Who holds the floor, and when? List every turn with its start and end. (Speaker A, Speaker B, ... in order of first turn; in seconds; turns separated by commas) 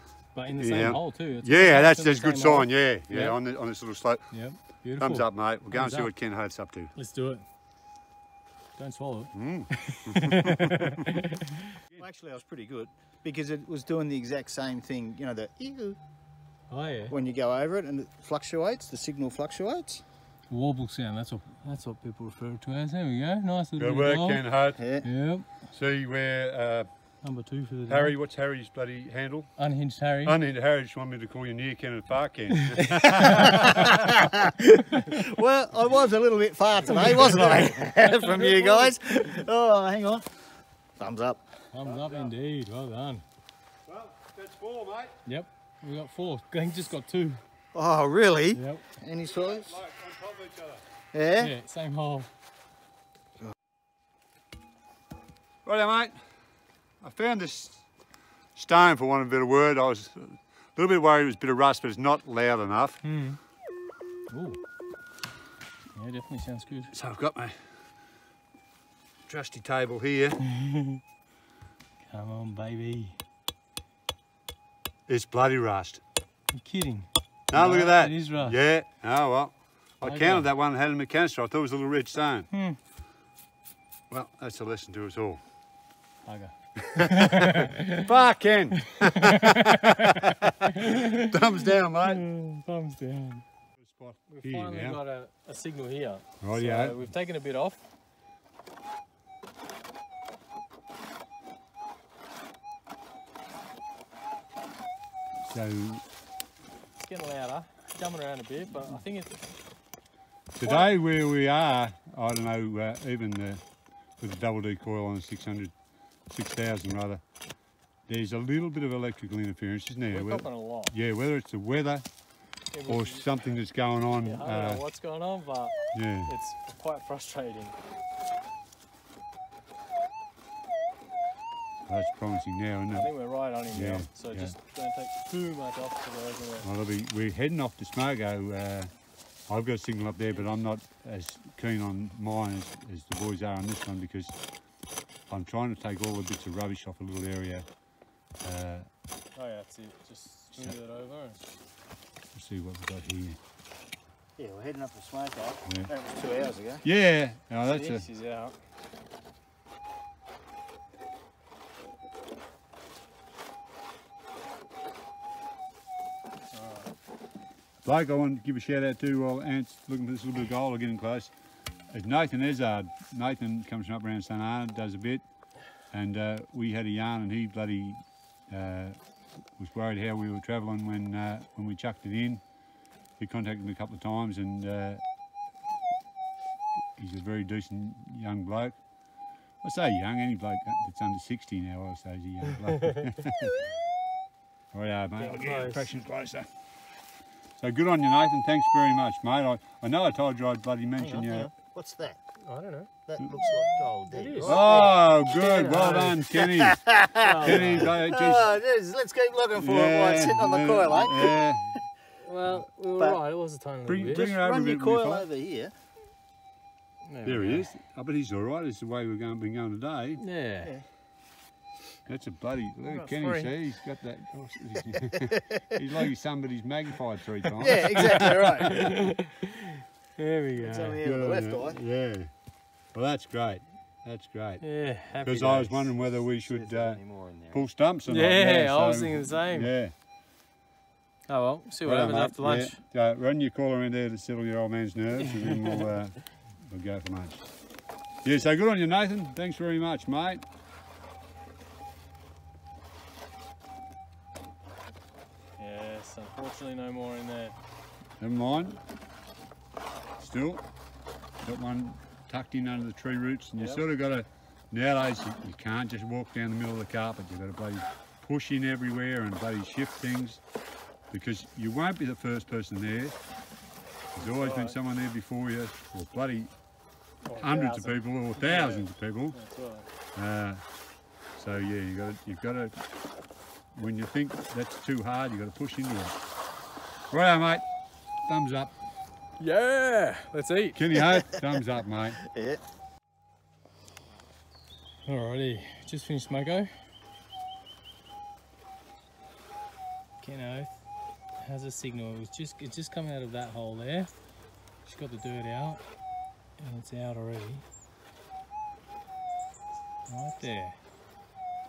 Speaker A: 0.3-3.4, Speaker B: 0.5-6.9, Speaker A: 4.3-6.1, Speaker A: 6.9-7.4, Speaker A: 8.8-11.2, Speaker B: 9.3-10.9, Speaker C: 12.0-16.0, Speaker A: 16.7-17.1, Speaker C: 17.1-20.0, Speaker A: 20.5-24.4, Speaker B: 23.8-25.0, Speaker C: 24.8-25.0, Speaker A: 25.0-25.6, Speaker B: 25.7-26.9, Speaker A: 27.2-28.1, Speaker B: 27.9-29.5, Speaker A: 29.6-30.4, Speaker B: 30.2-33.9, Speaker A: 32.5-33.7, Speaker C: 33.4-40.3, Speaker A: 36.9-38.9, Speaker C: 41.0-41.4, Speaker A: 41.7-43.2, Speaker B: 41.8-42.3, Speaker B: 43.9-45.1, Speaker A: 45.2-47.4, Speaker C: 47.7-49.8, Speaker A: 48.5-48.8, Speaker B: 49.2-50.8, Speaker C: 51.1-51.5, Speaker A: 51.4-52.3, Speaker B: 55.6-56.2, Speaker B: 57.0-57.8, Speaker B: 58.5-63.0, Speaker A: 63.0-63.4, Speaker A: 64.3-64.6, Speaker A: 65.9-66.9, Speaker B: 66.9-67.7, Speaker B: 69.2-70.4, Speaker A: 70.4-71.0, Speaker A: 72.0-73.2, Speaker B: 75.1-76.0, Speaker A: 76.5-78.6, Speaker B: 77.5-82.5, Speaker A: 80.0-80.5, Speaker A: 82.5-82.8, Speaker B: 84.1-85.4, Speaker A: 86.2-88.0, Speaker B: 86.9-92.2, Speaker A: 89.0-91.3, Speaker A: 92.0-93.4, Speaker B: 93.8-95.0, Speaker A: 94.3-97.8, Speaker B: 96.4-97.0, Speaker B: 105.4-106.0, Speaker A: 107.0-109.5, Speaker B: 110.5-113.6, Speaker A: 110.6-110.9, Speaker B: 114.2-115.7, Speaker B: 116.3-117.2, Speaker B: 118.1-122.1, Speaker A: 120.1-120.9, Speaker A: 122.7-123.3, Speaker B: 122.8-124.8, Speaker A: 124.2-127.8, Speaker B: 125.9-126.3, Speaker B: 131.9-133.1, Speaker A: 132.9-136.7, Speaker B: 133.7-134.5, Speaker B: 136.6-138.9, Speaker B: 139.5-144.3, Speaker B: 145.3-147.7, Speaker B: 148.4-148.9, Speaker A: 149.3-151.4, Speaker B: 152.3-153.4, Speaker C: 154.4-156.8, Speaker B: 155.7-155.9, Speaker B: 156.8-158.1, Speaker A: 157.6-158.5, Speaker A: 166.5-166.9, Speaker B: 167.8-171.3, Speaker B: 171.9-175.2, Speaker B: 175.8-179.0, Speaker B: 179.6-182.4, Speaker B: 183.2-185.0, Speaker B: 186.9-188.8, Speaker B: 189.6-193.6, Speaker B: 194.7-196.5, Speaker A: 195.2-195.8, Speaker B: 197.6-201.5, Speaker C: 201.0-202.2, Speaker A: 202.4-202.9, Speaker C: 203.1-205.0, Speaker A: 204.1-206.2, Speaker B: 204.4-206.8, Speaker C: 205.7-211.4, Speaker A: 207.2-207.9, Speaker B: 207.4-208.5, Speaker B: 209.6-211.7, Speaker A: 212.2-214.3, Speaker B: 213.9-215.3, Speaker C: 214.1-215.7, Speaker A: 217.0-217.7, Speaker B: 217.2-220.2, Speaker A: 220.2-220.7, Speaker B: 222.0-228.8, Speaker A: 222.8-223.5, Speaker C: 227.6-229.0, Speaker A: 228.7-231.0, Speaker C: 230.6-231.8, Speaker B: 231.0-232.3, Speaker B: 232.9-239.9, Speaker A: 234.6-235.9, Speaker C: 236.4-237.6, Speaker A: 238.1-239.7, Speaker A: 241.3-242.8, Speaker B: 241.8-247.4, Speaker A: 245.5-245.8, Speaker B: 248.2-250.4, Speaker A: 255.6-257.5, Speaker B: 258.2-258.8, Speaker B: 260.2-260.6, Speaker B: 261.4-270.4, Speaker A: 263.6-263.8, Speaker B: 271.1-273.2, Speaker B: 274.1-276.5, Speaker A: 274.2-274.8, Speaker A: 277.2-279.9, Speaker B: 277.4-279.4, Speaker B: 280.1-280.6, Speaker B: 281.4-282.8, Speaker B: 283.7-286.1, Speaker B: 287.1-287.6, Speaker B: 288.2-288.7, Speaker A: 289.4-290.8, Speaker B: 290.7-292.2, Speaker C: 292.2-292.6, Speaker A: 295.1-296.7, Speaker A: 300.2-300.7, Speaker A: 301.4-304.1, Speaker A: 304.8-305.8, Speaker A: 306.6-307.6, Speaker A: 310.1-310.8